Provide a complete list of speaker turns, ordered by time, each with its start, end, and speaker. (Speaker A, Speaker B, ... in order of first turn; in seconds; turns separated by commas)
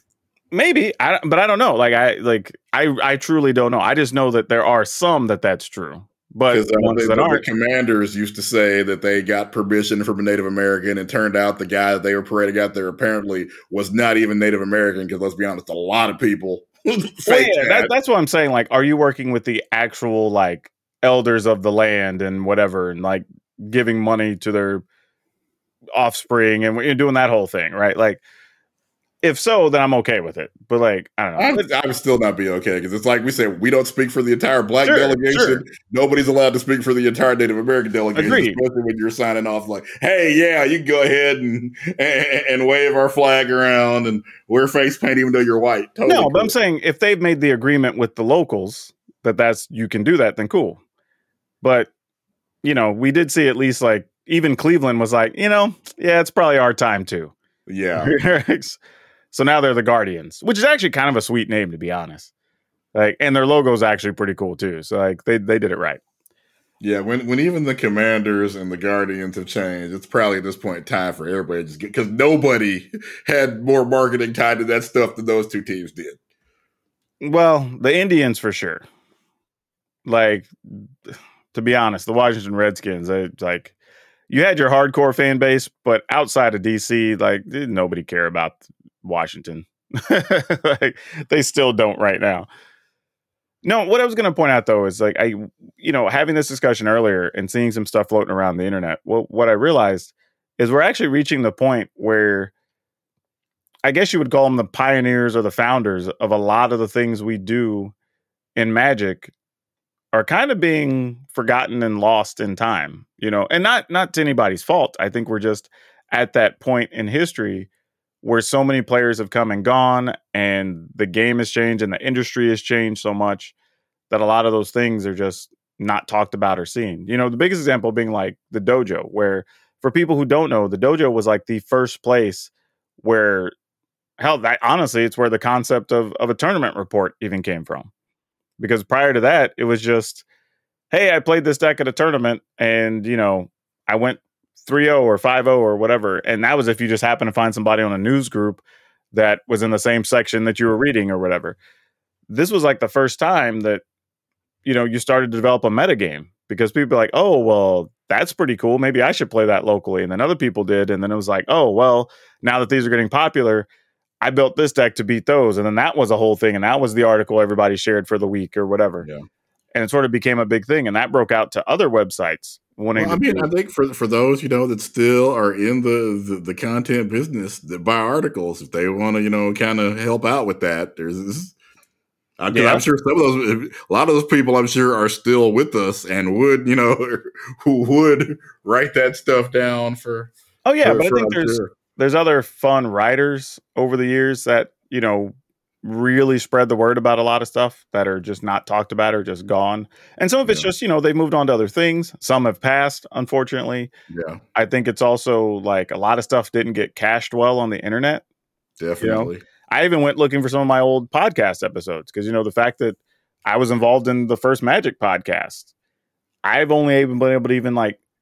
Speaker A: 0.5-7.4, Speaker B: 6.5-17.9, Speaker A: 17.2-24.8, Speaker A: 25.9-28.2, Speaker A: 29.2-31.6, Speaker B: 31.4-46.5, Speaker A: 34.9-35.6, Speaker A: 38.1-38.6, Speaker A: 46.0-50.8, Speaker A: 51.6-51.9, Speaker A: 52.6-57.3, Speaker B: 57.7-58.1, Speaker A: 58.0-58.8, Speaker A: 59.3-62.3, Speaker A: 62.9-66.0, Speaker B: 66.8-76.2, Speaker A: 77.2-78.8, Speaker A: 80.0-80.9, Speaker A: 81.5-83.7, Speaker A: 84.3-92.5, Speaker A: 93.6-102.5, Speaker A: 103.8-107.9, Speaker A: 108.5-109.3, Speaker A: 110.1-117.7, Speaker A: 118.2-123.5, Speaker A: 124.1-132.5, Speaker A: 133.0-133.5, Speaker A: 134.2-137.9, Speaker A: 138.6-140.2, Speaker A: 140.9-148.6, Speaker A: 149.1-151.6, Speaker A: 152.3-153.8, Speaker A: 154.6-163.7, Speaker A: 164.2-169.0, Speaker A: 169.7-173.5, Speaker B: 172.9-181.6, Speaker B: 182.4-190.3, Speaker A: 182.5-182.8, Speaker A: 190.6-203.9, Speaker B: 190.8-191.7, Speaker B: 204.1-204.4, Speaker A: 204.5-208.2, Speaker B: 208.8-209.4, Speaker A: 209.0-215.7, Speaker A: 216.4-218.0